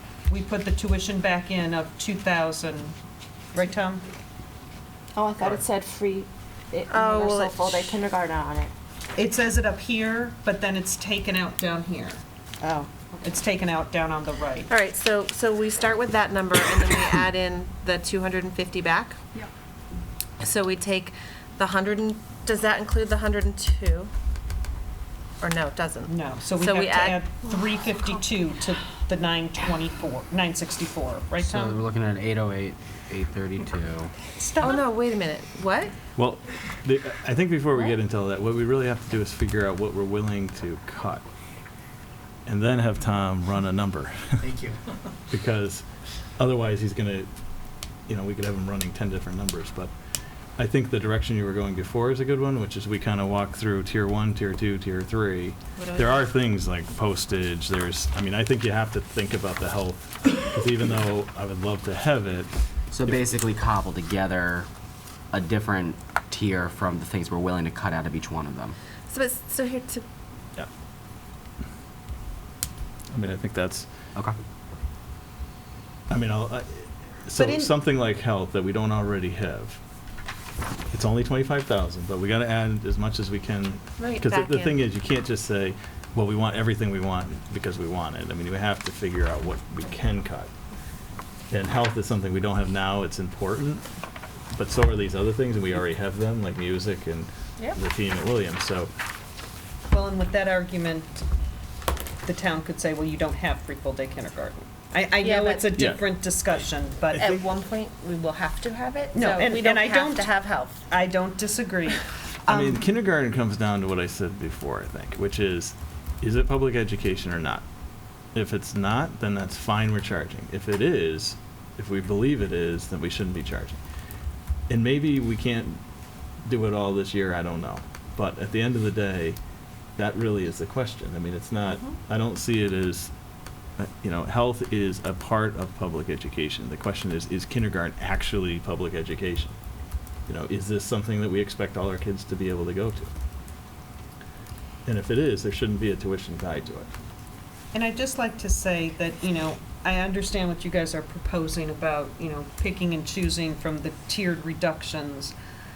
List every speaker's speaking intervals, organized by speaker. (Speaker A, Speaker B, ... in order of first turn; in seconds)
Speaker A: 0.3-3.0, 3.5-4.0, 9.2-12.2, 13.2-14.7, 26.1-31.8, 34.3-34.8, 77.3-77.7, 99.9-101.2, 102.2-107.2, 109.1-112.9, 147.7-155.3
Speaker B: 5.2-8.7, 12.6-13.2
Speaker C: 6.9-8.0, 14.7-19.2, 20.4-24.1, 25.4-27.2, 34.6-35.9, 55.8-56.3, 69.1-70.0, 84.0-84.8, 105.2-105.8, 107.2-110.8
Speaker D: 31.4-34.1, 62.9-64.7, 65.3-68.8
Speaker E: 36.2-41.2, 42.5-44.5, 45.3-45.8, 46.4-47.3, 48.1-49.9, 50.6-62.5, 73.1-73.9, 76.1-79.8, 80.9-90.5, 91.5-93.9, 94.5-98.9, 105.8-106.0, 107.1-107.5, 112.5-117.6, 118.3-123.8, 124.7-125.8, 126.5-129.4, 130.0-133.1, 133.8-139.6, 140.3-143.1, 144.8-146.9